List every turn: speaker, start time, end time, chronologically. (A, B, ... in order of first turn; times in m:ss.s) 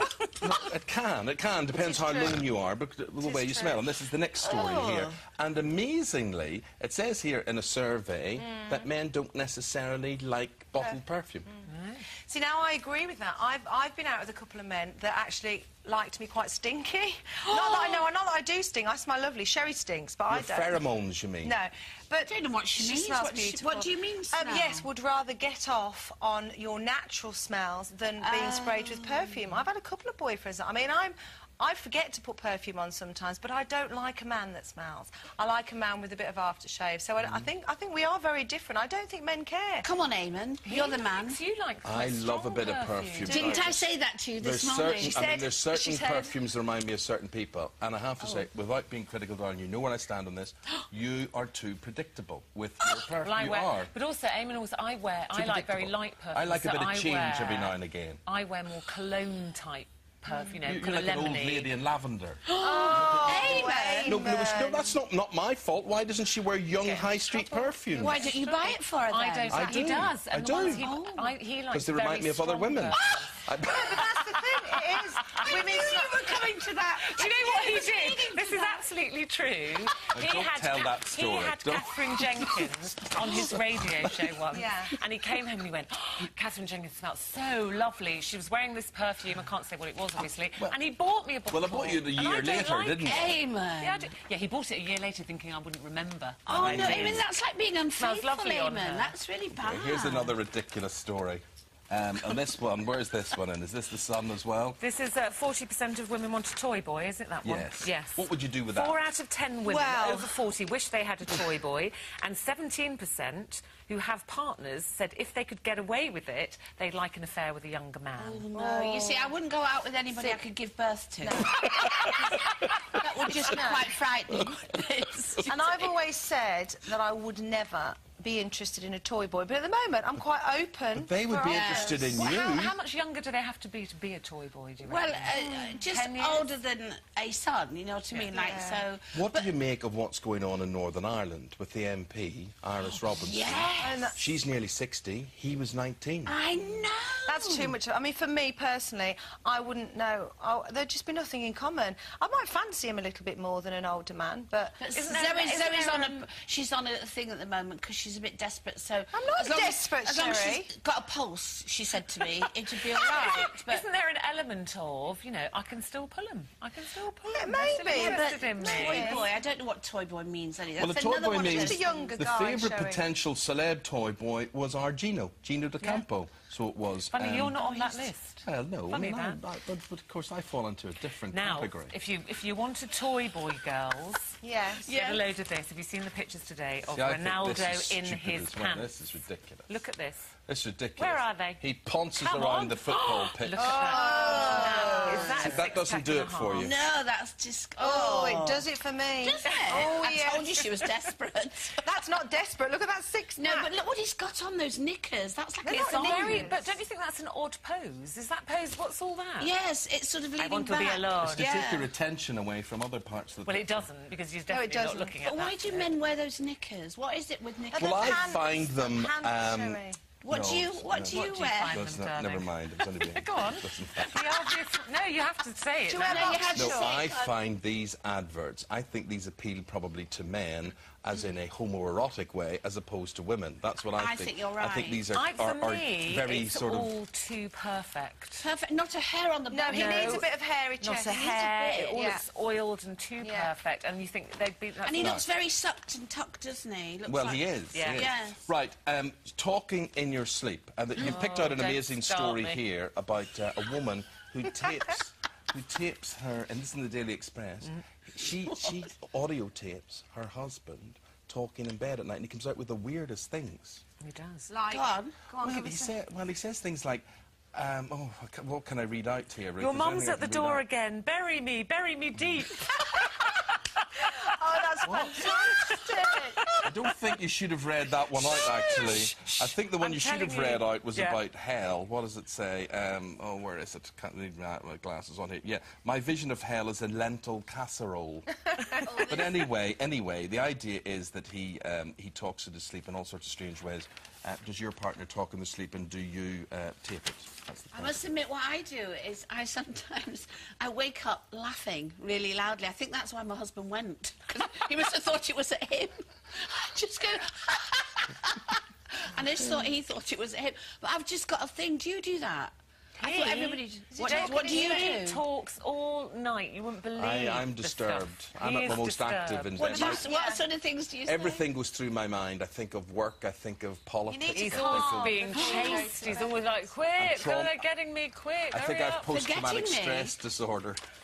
0:00.4-0:11.5 A
0:01.8-0:02.4 B
0:03.2-0:03.9 B
0:04.4-0:05.2 C
0:08.4-0:08.8 B
0:10.8-0:20.8 B
0:11.6-0:12.1 D
0:17.4-0:18.0 C
0:20.3-0:21.6 A
0:21.4-0:39.9 B
0:22.2-0:24.9 C
0:28.2-0:29.2 C
0:37.2-0:37.5 A
0:39.8-0:41.4 C
0:40.6-0:43.7 D
0:41.8-0:43.9 A
0:43.2-0:45.2 C
0:44.4-0:53.9 A
0:45.0-0:46.4 B
0:53.2-1:01.7 D
0:55.3-0:58.2 A
1:00.6-1:08.2 A
1:02.5-1:04.2 C
1:02.6-1:05.0 B
1:06.7-1:13.4 D
1:08.0-1:09.8 C
1:08.0-1:08.4 B
1:09.5-1:10.9 A
1:10.6-1:11.3 C
1:11.7-1:14.1 A
1:13.6-1:16.4 B
1:14.9-1:15.4 D
1:15.5-1:18.8 C
1:17.0-1:37.3 D
1:20.1-1:24.2 A
1:24.5-1:25.0 B
1:31.5-1:33.4 A
1:33.0-1:34.1 C
1:36.5-1:37.3 A
1:36.5-1:40.3 C
1:38.0-1:39.2 D
1:39.5-1:44.8 A
1:44.8-1:58.5 D
1:47.4-1:49.0 A
1:49.7-1:50.4 B
1:58.2-2:01.5 C
1:58.5-1:59.3 B
2:01.2-2:04.0 B
2:01.8-2:02.8 A
2:02.9-2:05.9 C
2:05.5-2:12.3 B
2:11.0-2:12.8 A
2:11.4-2:12.6 C
2:12.2-2:16.5 D
2:14.8-2:19.5 C
2:18.3-2:18.8 B
2:19.1-2:26.4 A
2:23.1-2:24.1 C
2:23.8-2:24.3 B
2:26.3-2:27.8 C
2:27.3-2:34.8 B
2:34.8-2:43.8 C
2:35.0-2:36.2 D
2:39.1-2:40.7 B
2:42.9-2:49.2 D
2:47.2-2:49.3 B
2:47.9-2:51.9 C
2:50.8-2:57.7 A
2:51.3-2:53.0 B
2:57.1-2:59.4 D
2:57.6-2:58.0 B
2:58.4-3:01.9 A
3:01.3-3:10.3 D
3:04.4-3:04.9 B
3:04.8-3:05.3 C
3:06.9-3:09.7 A
3:10.5-3:13.8 A
3:11.0-3:11.6 D
3:12.2-3:16.8 D
3:13.6-3:15.6 B
3:13.6-3:15.5 C
3:15.4-3:16.8 A
3:16.5-3:18.7 C
3:17.8-3:20.8 B
3:19.2-3:21.8 C
3:19.6-3:19.9 D
3:21.8-3:23.7 B
3:23.4-3:26.5 C
3:25.6-3:26.8 B
3:25.7-3:29.5 D
3:29.4-3:31.9 C
3:30.4-3:31.6 D
3:31.2-3:33.8 A
3:33.4-3:35.9 D
3:34.5-3:35.2 B
3:35.2-3:38.4 C
3:37.7-3:40.0 B
3:37.8-3:44.5 A
3:40.2-3:41.8 C
3:41.0-3:46.5 D
3:45.9-3:47.1 B
3:46.0-3:47.4 C
3:46.5-3:56.9 A
3:54.0-3:55.1 C
3:55.1-3:58.5 D
3:58.4-4:00.2 C
3:59.5-4:02.2 B
3:59.7-4:00.3 D
4:00.8-4:05.2 D
4:01.1-4:02.0 C
4:03.2-4:03.5 B
4:04.8-4:08.5 C
4:05.0-4:05.2 A
4:07.1-4:23.8 A
4:07.7-4:08.1 D
4:11.0-4:12.6 D
4:18.5-4:18.8 C
4:24.0-4:24.5 D
4:24.5-4:26.0 B
4:24.7-4:25.2 C
4:25.4-4:30.6 A
4:29.6-4:33.4 D
4:34.0-4:36.6 B
4:34.8-4:35.3 A
4:35.6-4:36.6 D
4:36.6-4:58.1 A
4:38.3-4:41.2 D
4:38.4-4:38.7 B
4:48.8-4:49.4 C
4:57.7-5:15.2 C
5:13.0-5:15.0 B
5:13.0-5:19.8 D
5:17.0-5:20.0 A
5:19.6-5:21.5 C
5:19.7-5:20.4 B
5:21.0-5:25.3 A
5:24.1-5:26.7 B
5:24.3-5:29.1 D
5:25.3-5:25.8 C
5:27.0-5:27.6 A
5:28.5-5:30.8 A
5:29.1-5:30.2 C